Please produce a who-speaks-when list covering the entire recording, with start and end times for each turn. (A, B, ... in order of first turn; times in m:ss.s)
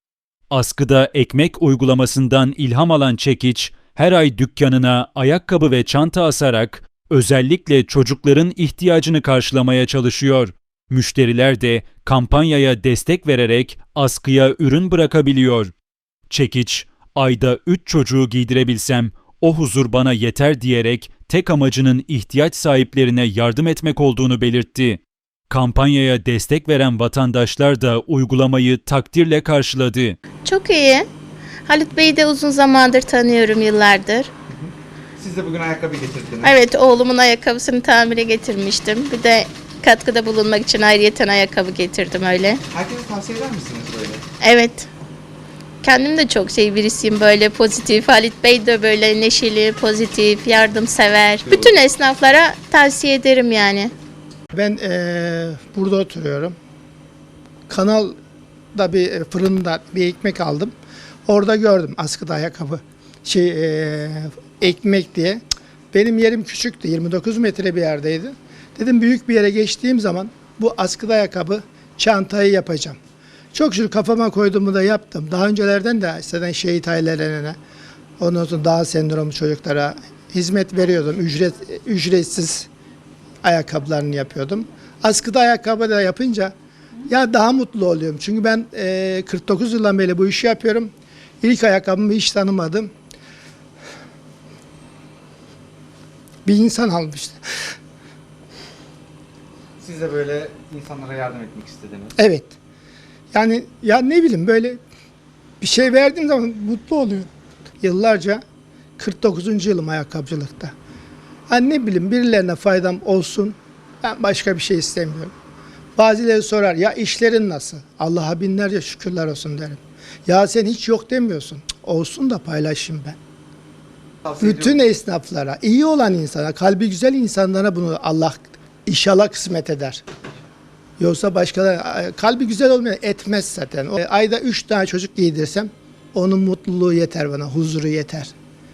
0:00.5-0:15.7 A
0:16.3-0:30.2 A
0:30.4-0:31.0 B
0:31.6-0:34.3 B
0:34.5-0:36.6 C
0:36.4-0:42.6 B
0:42.7-0:44.2 C
0:44.4-0:44.9 B
0:45.8-0:53.9 B
0:51.4-0:51.8 C
0:54.5-0:56.5 D
0:57.7-0:58.2 D
0:58.7-1:00.7 D
1:01.2-1:13.0 D
1:13.5-1:17.6 D
1:18.2-1:22.7 D
1:23.4-1:26.5 D
1:27.0-1:32.9 D
1:36.4-1:37.4 D
1:39.8-1:42.1 C
1:42.2-1:42.5 D
1:43.3-1:44.8 D
1:45.6-1:47.3 D
1:47.8-1:48.4 D
1:49.0-1:50.7 D
1:51.5-1:55.3 D
1:56.0-2:03.2 D
2:04.3-2:10.0 D
2:11.0-2:18.3 D